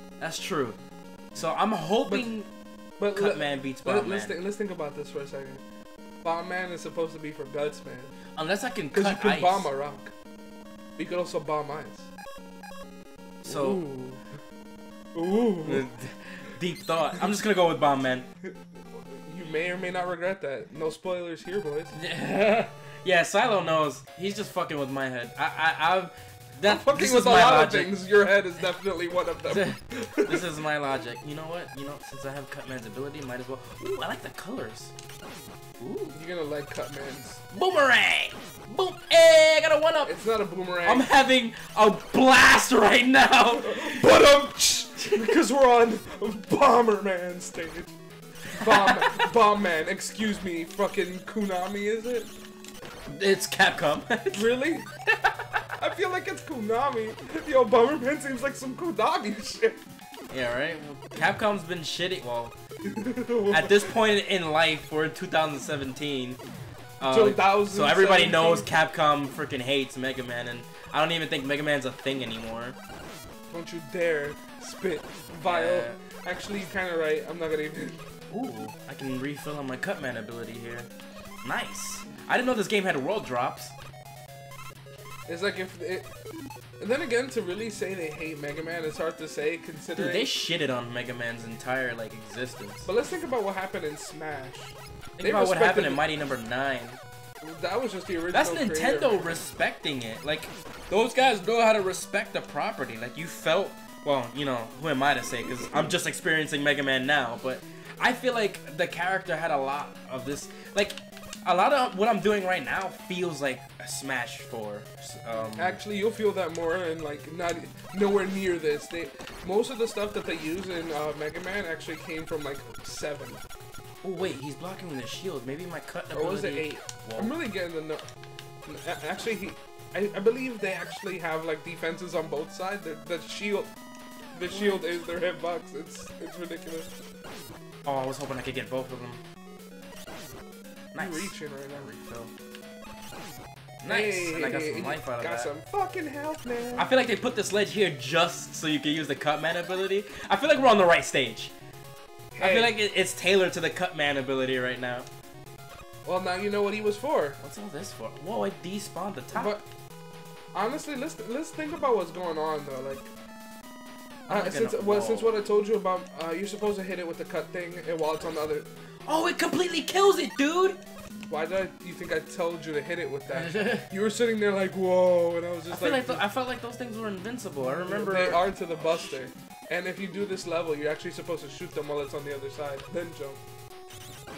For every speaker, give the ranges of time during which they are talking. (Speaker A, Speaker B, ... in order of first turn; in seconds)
Speaker A: 0.2-0.8, 1.3-2.5, 3.1-4.4, 8.3-9.7, 13.4-13.8, 15.6-18.3, 21.9-27.9, 29.5-34.9, 35.8-36.1, 37.5-40.1, 40.8-44.1, 48.5-49.3, 53.1-54.5, 55.2-55.7, 60.3-62.5, 63.5-66.4, 67.0-72.8, 75.4-76.0, 78.3-80.9, 81.4-83.7, 90.0-92.9, 95.2-97.0, 98.3-115.8, 124.0-127.3, 134.5-135.0, 137.8-139.2, 140.9-142.3, 143.8-145.5, 146.8-151.5, 152.4-155.1, 157.4-159.6, 164.3-165.4, 169.0-170.8, 173.3-173.8, 175.7-179.2
Speaker B: 2.0-2.3, 3.0-5.6, 6.2-8.1, 8.9-10.1, 11.0-12.1, 13.4-14.2, 15.1-15.9, 19.0-21.9, 26.6-30.4, 36.1-37.4, 40.0-41.1, 43.6-48.0, 48.5-52.3, 54.3-54.9, 55.8-59.8, 62.8-63.9, 67.0-68.7, 73.5-78.0, 85.3-86.1, 86.8-90.3, 92.8-96.0, 97.4-99.4, 115.3-123.4, 126.1-128.1, 128.7-133.7, 134.3-136.9, 140.9-141.9, 143.9-146.9, 152.3-152.7, 156.0-157.4, 159.3-159.6, 160.5-163.1, 164.3-168.7, 171.3-176.2, 177.6-183.4